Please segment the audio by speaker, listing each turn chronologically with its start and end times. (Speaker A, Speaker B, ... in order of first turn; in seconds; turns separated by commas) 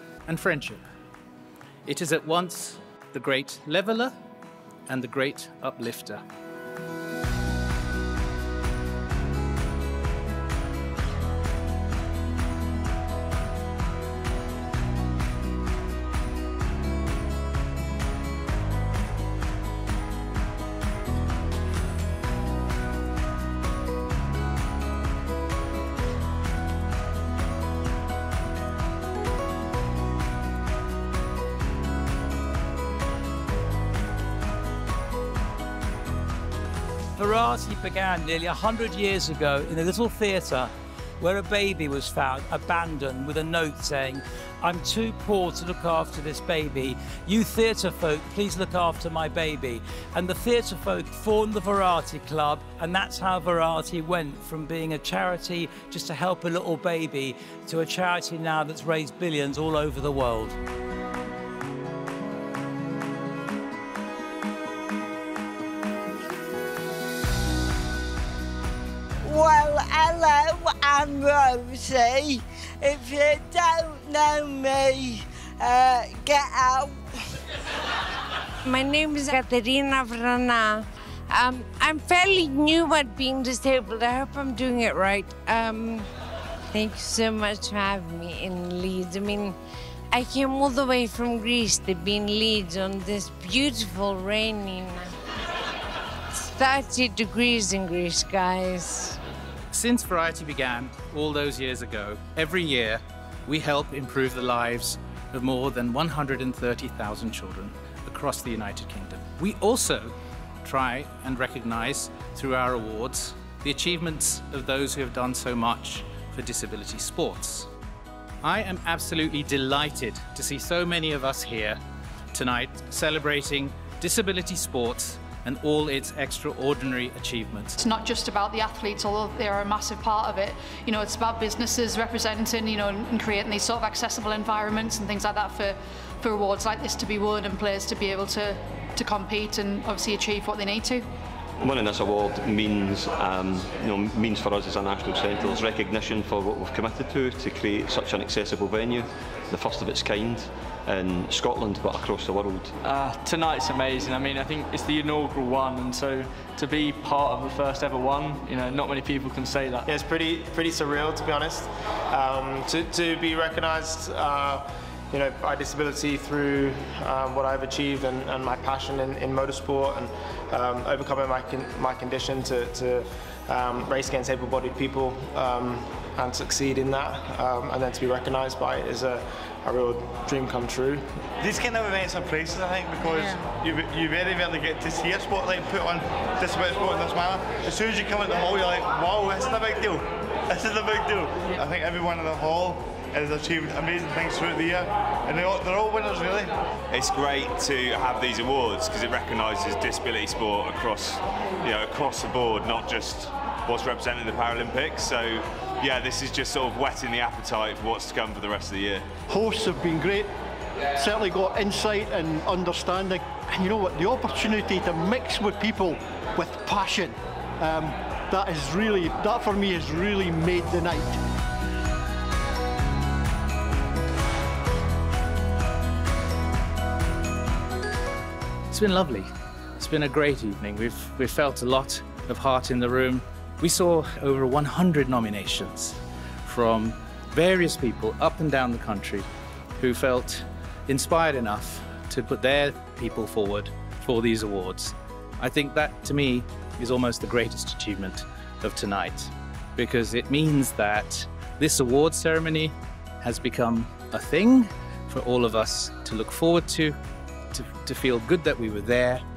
Speaker A: 0.3-0.8, Speaker A: 1.9-4.2, Speaker A: 4.9-6.2, Speaker B: 37.2-60.6, Speaker C: 69.2-77.1, Speaker D: 78.7-86.1, Speaker D: 86.7-89.5, Speaker D: 90.1-95.1, Speaker D: 96.4-99.2, Speaker A: 99.7-117.7, Speaker A: 118.4-121.8, Speaker A: 122.3-127.8, Speaker E: 127.8-141.1, Speaker F: 141.6-152.7, Speaker G: 152.8-159.8, Speaker H: 159.9-181.2, Speaker I: 181.4-196.5, Speaker J: 196.9-209.0, Speaker K: 209.3-210.3, Speaker K: 211.0-221.2, Speaker A: 228.7-257.0, Speaker A: 257.5-259.2